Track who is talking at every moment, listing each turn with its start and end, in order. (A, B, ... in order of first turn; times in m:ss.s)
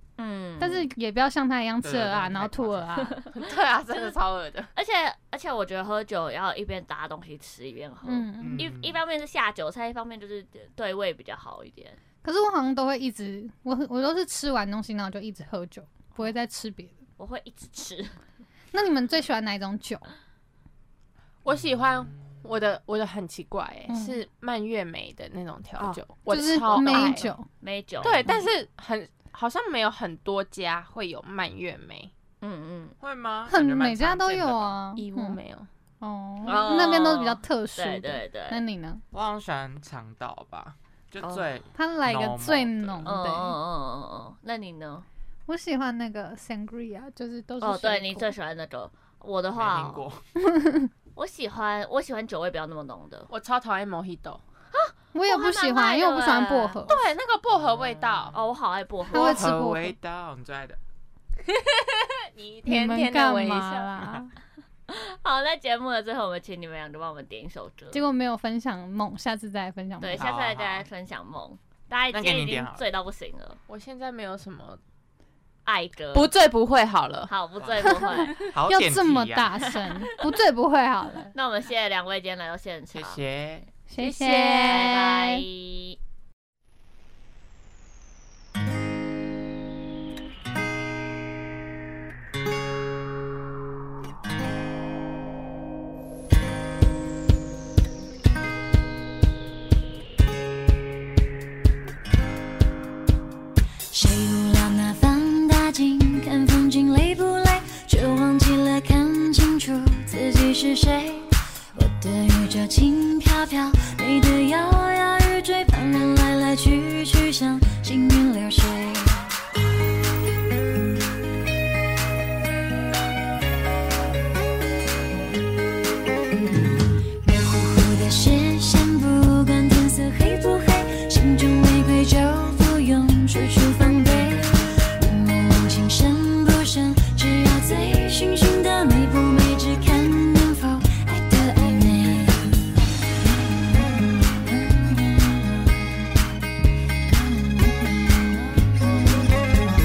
0:00.2-0:00.9 A
0:00.6-0:03.1 B
0:01.8-0:02.8 C
0:03.3-0:04.7 D
0:04.8-0:12.0 A
0:08.0-0:08.7 B
0:08.4-0:09.0 C
0:12.2-0:17.0 B
0:17.2-0:18.2 A
0:18.7-0:20.1 B
0:21.4-0:27.2 D
0:21.5-0:22.4 C
0:23.9-0:24.2 B
0:25.8-0:27.5 B
0:27.6-0:28.4 A
0:28.0-0:32.1 D
0:32.4-0:33.0 A
0:33.0-0:34.8 C
0:33.5-0:35.4 B
0:35.0-0:35.7 D
0:36.0-0:39.0 B
0:36.4-0:38.6 A
0:39.1-0:43.1 C
0:41.2-0:41.5 A
0:41.8-0:43.6 B
0:43.0-0:45.1 A
0:45.5-0:48.3 B
0:47.6-0:50.1 A
0:49.6-0:50.2 C
0:50.5-0:50.9 B
0:51.2-0:53.3 A
0:53.3-0:54.4 D
0:54.7-0:57.0 A
0:55.1-0:57.0 B
0:56.9-0:58.4 D
0:58.0-0:59.5 A
0:59.1-1:00.0 B
0:59.1-1:00.8 C
1:01.5-1:04.0 D
1:02.7-1:04.3 B
1:04.9-1:08.0 A
1:07.9-1:10.3 B
1:10.0-1:13.6 A
1:10.2-1:10.9 C
1:12.1-1:12.8 C
1:13.7-1:14.8 D
1:15.6-1:16.3 A
1:16.1-1:17.3 D
1:17.3-1:18.5 A
1:17.6-1:19.5 C
1:17.8-1:21.3 B
1:19.6-1:19.9 A
1:21.3-1:23.2 A
1:22.9-1:23.7 C
1:23.9-1:25.4 B
1:24.0-1:24.9 D
1:24.6-1:26.0 A
1:43.9-1:59.2 E
2:07.2-2:22.6 E
2:23.2-2:26.1 E
2:27.0-2:29.4 E